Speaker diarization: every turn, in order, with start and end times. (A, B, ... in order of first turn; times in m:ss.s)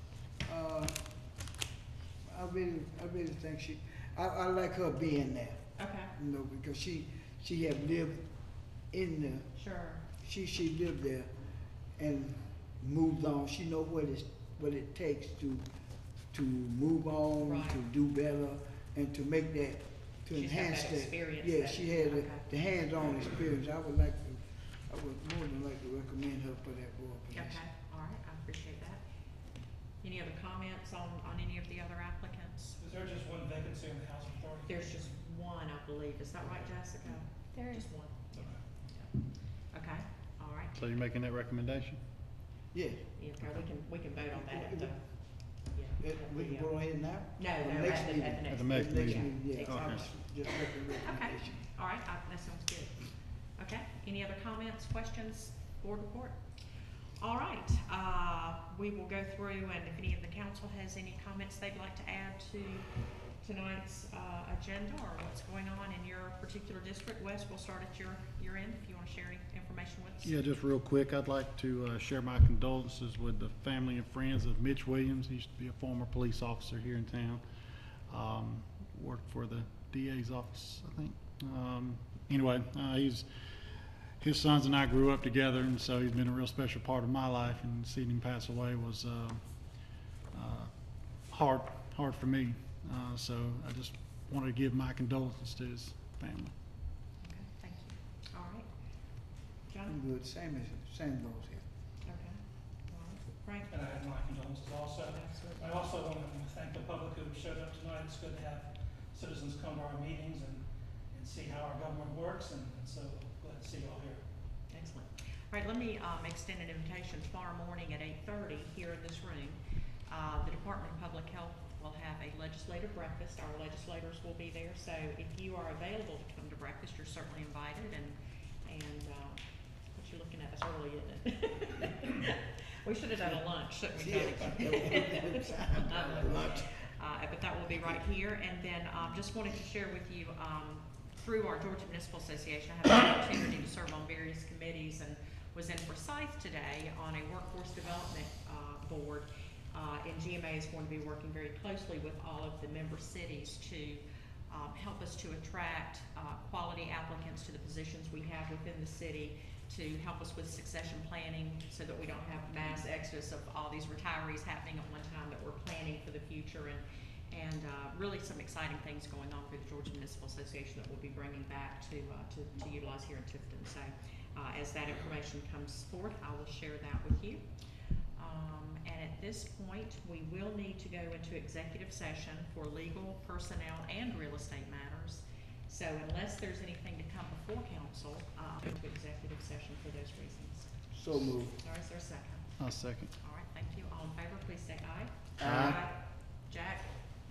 0:00.4-0:01.1 A
0:02.3-0:09.5 A
0:05.8-0:06.1 B
0:09.6-0:10.0 B
0:10.1-0:11.3 A
0:12.0-0:15.7 A
0:16.3-0:27.6 A
0:17.4-0:17.8 B
0:20.3-0:23.2 B
0:27.3-0:29.0 B
0:30.0-0:32.8 B
0:32.8-0:35.1 C
0:34.7-0:39.2 B
0:39.7-0:40.8 B
0:40.8-0:42.0 D
0:42.7-0:43.1 A
0:43.2-0:45.0 B
0:44.4-0:44.9 A
0:45.7-0:46.8 B
0:46.0-0:51.6 A
0:47.4-0:56.4 B
0:48.5-0:50.0 D
0:57.2-1:02.9 B
1:03.4-1:10.3 B
1:10.2-1:17.4 D
1:18.1-1:23.3 D
1:24.2-1:29.8 D
1:30.3-1:30.7 D
1:31.3-1:36.5 D
1:37.2-1:38.7 B
1:39.7-1:40.0 B
1:39.9-1:41.6 A
1:42.0-1:43.7 B
1:43.7-1:54.2 C
1:45.1-1:45.6 B
1:54.7-2:57.4 B
2:13.9-2:16.6 A
2:58.2-3:10.7 B
3:10.9-3:11.6 A
3:11.6-3:12.5 B
3:12.6-3:13.1 D
3:13.2-3:16.9 B
3:15.4-3:15.8 A
3:15.4-3:15.8 D